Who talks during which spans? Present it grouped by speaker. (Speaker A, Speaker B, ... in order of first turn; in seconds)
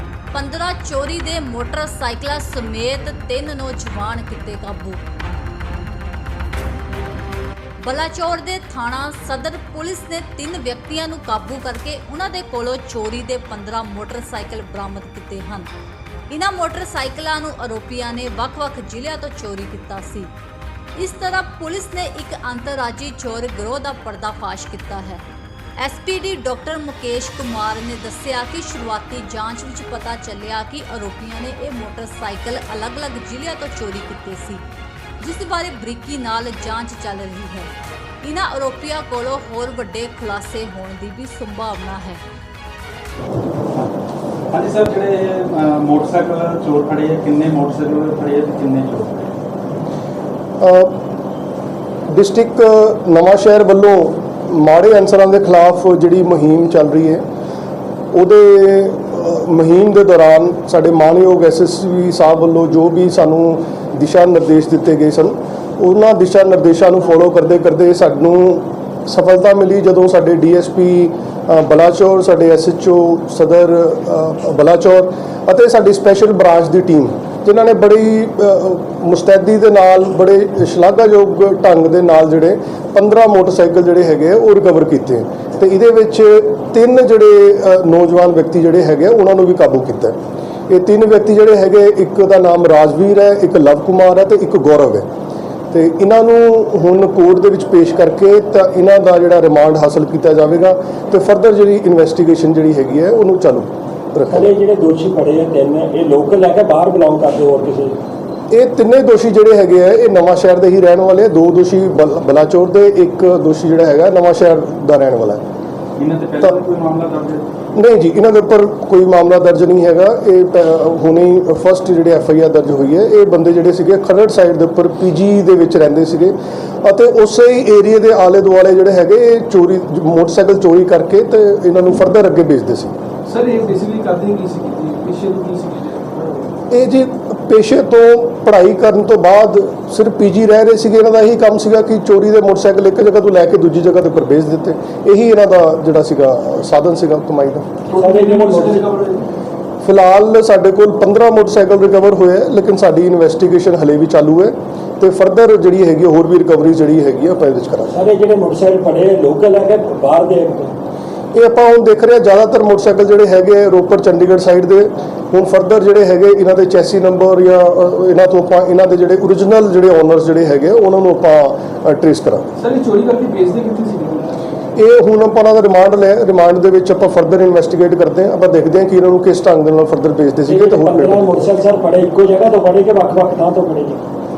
Speaker A: 0.3-5.0, 7.8-15.7, 16.3-20.3, 21.0-25.2, 25.8-34.6, 35.2-37.7, 38.2-42.2
Speaker B: 44.5-49.3, 116.0-117.5
Speaker C: 50.6-51.0, 52.1-57.2, 58.1-90.2, 90.7-95.1, 95.7-104.5, 108.5-115.4, 117.8-133.0, 136.7-147.7, 149.8-157.9, 161.3-172.5, 174.8-181.5
Speaker D: 104.3-108.0, 148.0-148.8, 157.9-160.7, 180.5-184.0
Speaker E: 133.3-136.5, 147.9-149.2, 172.6-174.5